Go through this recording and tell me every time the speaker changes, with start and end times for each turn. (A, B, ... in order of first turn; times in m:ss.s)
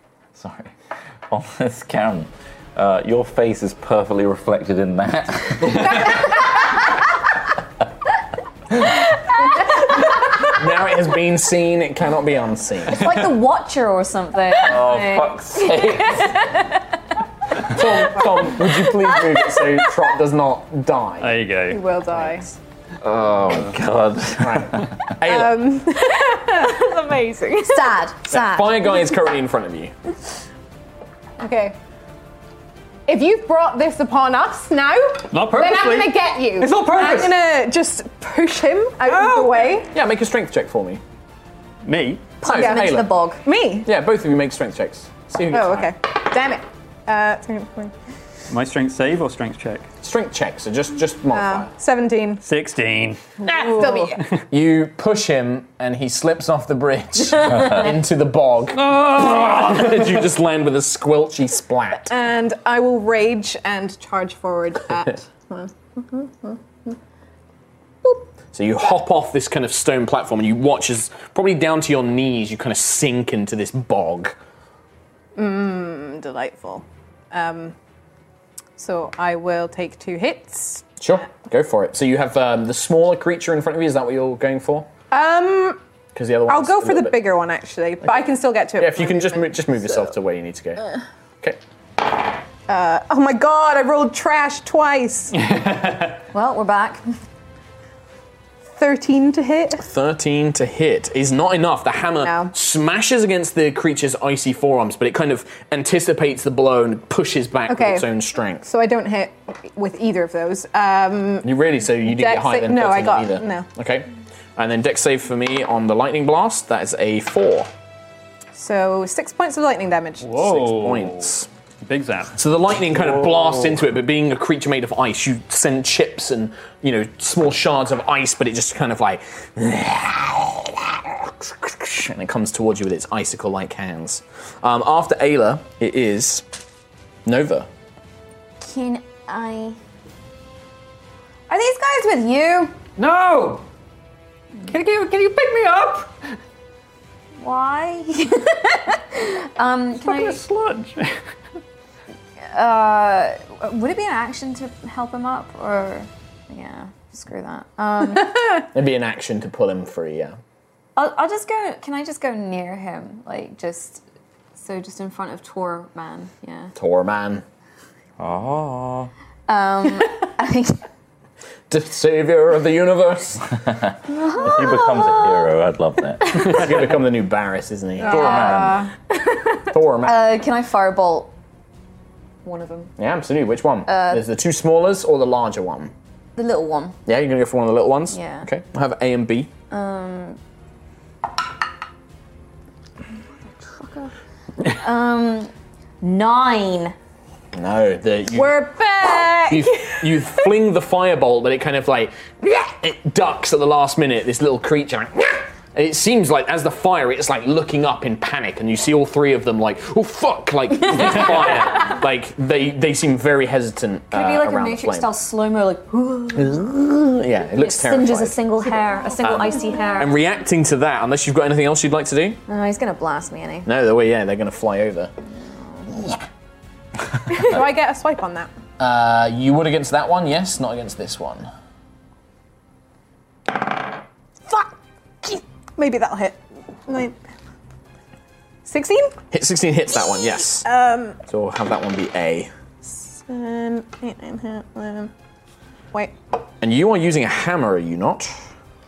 0:00.3-0:00.7 A
0:01.3-0:06.3 A
0:10.5-0:13.3 B
0:12.9-0:16.4 C
0:14.6-0:16.4 A
0:17.6-0:21.4 B
0:21.2-0:21.8 D
0:21.7-0:22.5 E
0:23.0-0:24.9 A
0:24.4-0:25.8 B
0:25.2-0:28.0 E
0:27.6-0:28.7 C
0:28.3-0:29.9 B
0:31.4-0:31.8 E
0:33.1-0:39.9 E
0:35.3-0:37.3 D
0:39.0-0:39.8 D
0:39.9-0:41.0 B
0:41.8-0:42.4 D
0:42.4-0:43.4 C
0:42.4-0:43.1 B
0:42.5-0:43.9 E
0:43.8-0:45.9 B
0:45.5-0:47.9 E
0:48.5-0:49.9 D
0:50.0-0:51.7 B
0:51.3-0:52.4 E
0:52.4-0:54.3 D
0:53.4-0:54.2 E
0:54.5-1:02.1 B
0:58.7-1:00.3 D
1:02.1-1:06.9 E
1:08.5-1:14.4 B
1:15.4-1:17.7 E
1:18.8-1:20.9 E
1:21.0-1:24.9 B
1:25.1-1:25.8 E
1:26.1-1:27.3 B
1:26.5-1:30.0 E
1:28.8-1:30.8 B
1:32.7-1:35.4 E
1:35.3-1:36.2 D
1:36.3-1:37.0 C
1:38.8-1:39.8 E
1:39.8-1:48.7 B
1:42.2-1:42.5 E
1:47.7-1:48.1 E
1:48.6-1:53.7 E
1:51.4-1:57.7 B
1:58.5-2:00.3 E
2:00.2-2:02.3 D
2:00.3-2:01.5 B
2:02.4-2:16.4 B
2:17.2-2:17.7 B
2:18.6-2:19.8 C
2:21.5-2:22.8 C
2:23.0-2:23.6 D
2:24.6-2:26.1 D
2:27.4-2:30.4 C
2:30.0-2:31.2 D
2:32.5-2:38.6 C
2:38.7-2:40.4 B
2:41.0-2:44.0 C
2:44.6-2:46.7 C
2:46.7-2:47.4 B
2:48.2-2:49.1 A
2:49.5-2:50.8 C
2:51.7-2:53.6 B
2:53.6-2:56.7 A
2:54.1-2:55.6 C
2:56.3-2:58.7 B
2:56.3-2:56.6 C
2:58.0-2:58.9 E
2:58.0-2:58.9 A
2:59.1-3:01.3 C
2:59.7-3:00.2 B
3:02.4-3:02.9 C
3:03.0-3:05.9 B
3:03.9-3:04.2 C
3:06.4-3:07.0 C
3:07.1-3:09.5 B
3:08.1-3:08.5 C
3:09.7-3:10.4 C
3:13.5-3:16.9 C
3:17.5-3:18.7 B
3:18.3-3:20.2 E
3:19.5-3:35.1 B
3:31.2-3:31.6 D
3:34.1-3:36.7 C
3:36.3-3:38.4 B
3:37.6-3:40.2 C
3:39.2-3:42.4 B
3:42.5-3:43.7 C
3:43.6-3:45.1 B
3:45.6-3:46.2 C
3:47.3-3:48.5 E
3:48.8-3:51.5 B
3:54.5-3:57.2 E
3:58.6-3:59.2 E
3:59.3-4:00.7 B
4:00.0-4:01.2 E
4:01.3-4:02.5 B
4:02.8-4:05.1 E
4:06.6-4:08.3 B